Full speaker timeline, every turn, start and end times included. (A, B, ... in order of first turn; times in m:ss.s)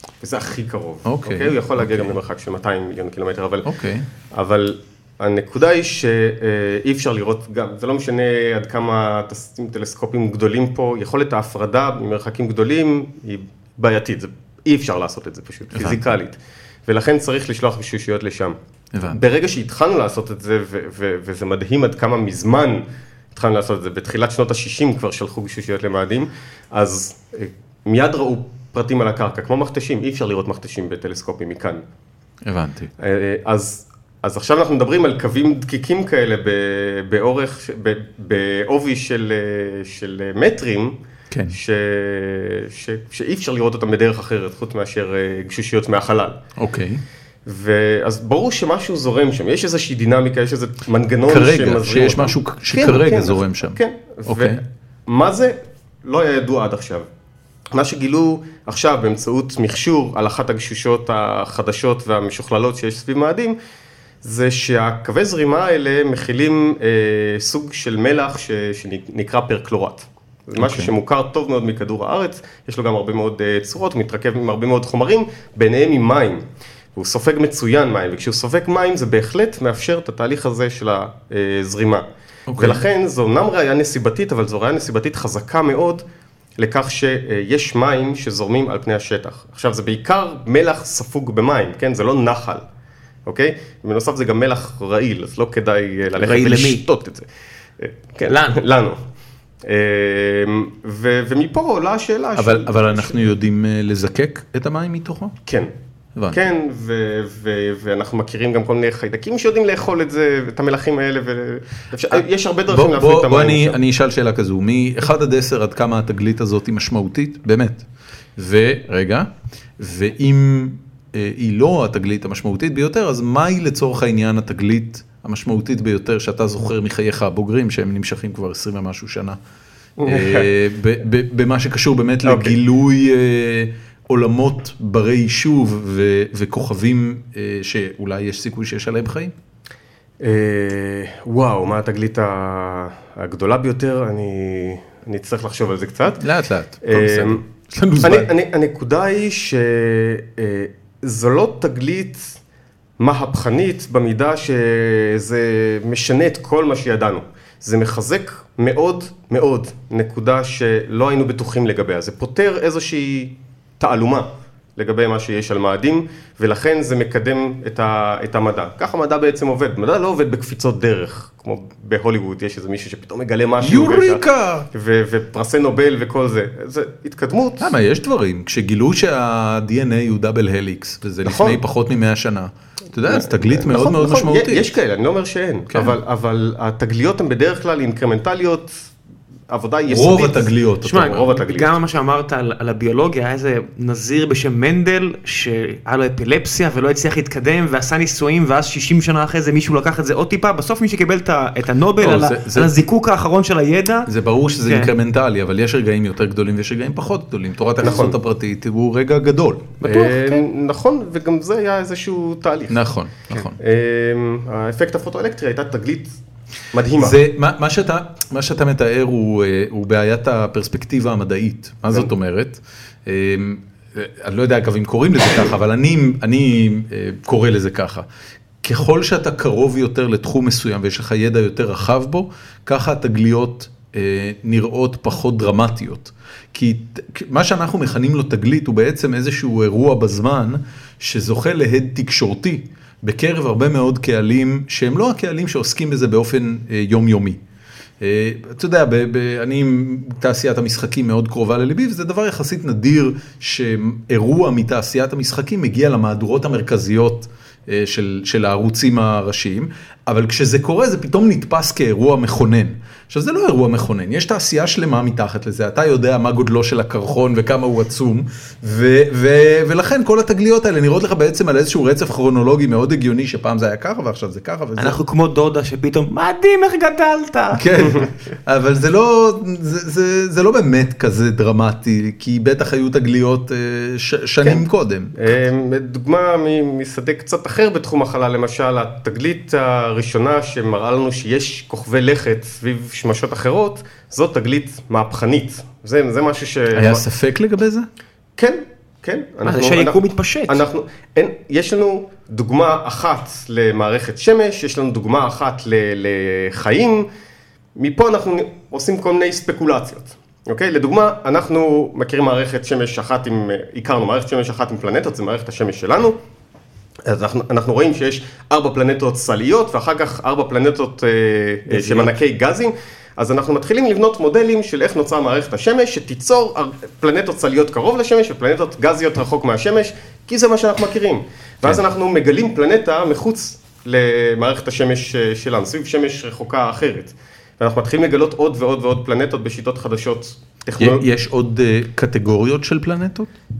0:00.2-0:03.7 A
0:01.0-0:02.1 B
0:03.6-0:04.1 B
0:04.3-0:18.6 A
0:15.7-0:16.1 B
0:18.9-0:19.2 B
0:19.1-0:31.8 A
0:32.4-0:32.9 B
0:33.0-0:41.0 A
0:41.5-0:46.4 A
0:46.6-0:47.0 B
0:47.4-0:57.1 A
0:51.3-0:54.6 B
0:57.7-1:03.6 A
1:04.2-1:16.4 A
1:10.6-1:10.9 B
1:17.0-1:26.0 A
1:22.5-1:22.8 B
1:26.6-1:32.6 A
1:33.2-1:37.3 A
1:36.2-1:36.8 C
1:37.8-1:39.0 A
1:38.3-1:38.6 C
1:39.6-1:43.2 A
1:42.4-1:45.3 B
1:45.4-1:45.7 A
1:46.2-1:46.4 B
1:46.3-1:53.8 A
1:52.7-1:57.8 B
1:58.4-2:09.4 B
2:10.0-2:10.5 A
2:10.1-2:19.3 B
2:12.2-2:12.5 A
2:20.2-2:26.2 A
2:26.2-2:28.3 B
2:26.8-2:27.4 A
2:28.0-2:32.4 A
2:33.0-2:57.7 A
2:53.6-2:54.7 B
2:57.6-3:04.7 B
3:01.2-3:01.6 A
3:03.0-3:08.9 A
3:09.5-3:11.7 A
3:09.9-3:11.2 B
3:10.8-3:24.1 C
3:22.0-3:22.8 B
3:24.0-3:29.8 B
3:24.6-3:24.9 C
3:27.8-3:28.2 A
3:29.8-3:32.8 A
3:29.8-3:30.4 C
3:32.7-3:33.6 B
3:33.3-3:36.2 A
3:36.7-3:37.2 A
3:37.0-3:48.0 B
3:48.6-4:07.4 B
4:08.0-4:35.0 B
4:34.8-4:37.9 C
4:37.5-4:45.2 B
4:45.1-4:57.0 A
4:56.7-4:57.9 B
4:58.4-5:07.1 A
4:59.4-5:00.6 C
5:07.8-5:16.2 A
5:17.0-5:41.0 A
5:21.7-5:22.1 C
5:40.8-5:43.3 B